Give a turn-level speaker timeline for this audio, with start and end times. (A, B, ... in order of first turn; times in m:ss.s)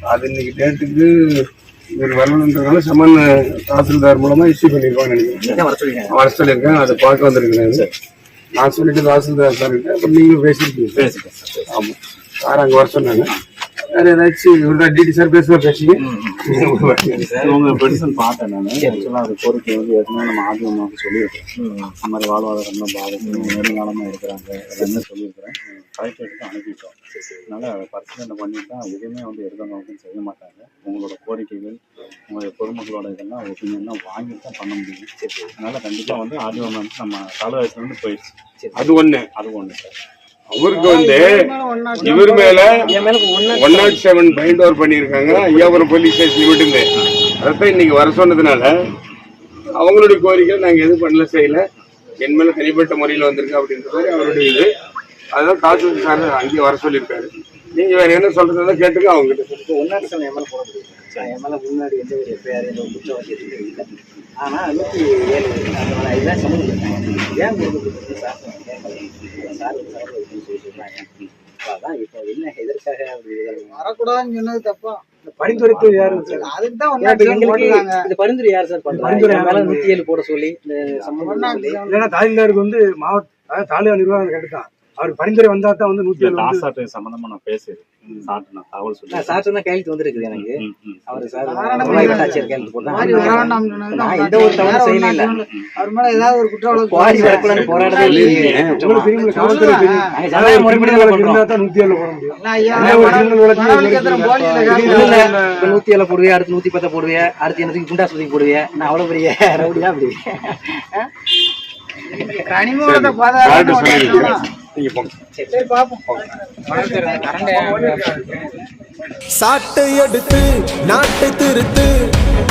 0:00.1-0:01.1 A
0:02.0-0:07.8 A
0:05.4-0:06.1 B
0:08.6-0:11.1 A
0:11.0-0:11.7 C
0:11.7-0:13.3 A
0:13.9-0:17.2 A
0:16.0-0:16.4 B
0:17.1-0:17.6 B
0:17.3-0:21.5 C
0:18.8-0:19.1 B
0:21.6-0:21.9 B
0:22.0-0:38.3 C
0:23.2-0:23.6 B
0:27.1-0:27.5 B
0:35.2-0:35.5 B
0:38.6-0:38.9 B
0:38.8-0:39.3 A
0:39.4-0:39.9 C
0:40.5-0:41.4 A
0:40.7-0:42.8 D
0:41.9-0:42.2 B
0:42.0-0:42.9 A
0:42.8-0:44.0 B
0:43.5-0:46.8 A
0:45.3-0:45.8 B
0:47.4-0:48.7 A
0:49.8-0:51.6 A
0:52.2-0:54.7 A
0:55.3-0:59.6 A
0:59.6-1:11.1 B
1:11.6-1:13.8 B
1:13.6-1:15.0 D
1:15.2-1:16.5 B
1:15.4-1:16.5 E
1:16.2-1:18.1 D
1:17.0-1:21.8 B
1:18.9-1:19.9 E
1:20.8-1:21.3 C
1:21.2-1:22.1 D
1:21.8-1:26.6 E
1:26.2-1:29.4 C
1:29.1-1:35.4 B
1:30.3-1:33.5 C
1:31.4-1:40.1 D
1:31.8-1:32.3 E
1:36.7-1:38.7 B
1:37.2-1:39.0 A
1:38.8-1:45.1 E
1:40.1-1:41.5 B
1:42.3-1:45.4 D
1:42.8-1:43.2 B
1:44.4-1:51.1 B
1:45.0-1:45.8 A
1:52.2-1:54.4 D
1:52.8-1:55.1 A
1:53.8-1:54.3 B
1:55.3-1:55.7 B
1:55.5-1:57.9 D
1:56.6-1:58.4 B
1:57.4-1:58.4 A
1:59.4-2:01.9 F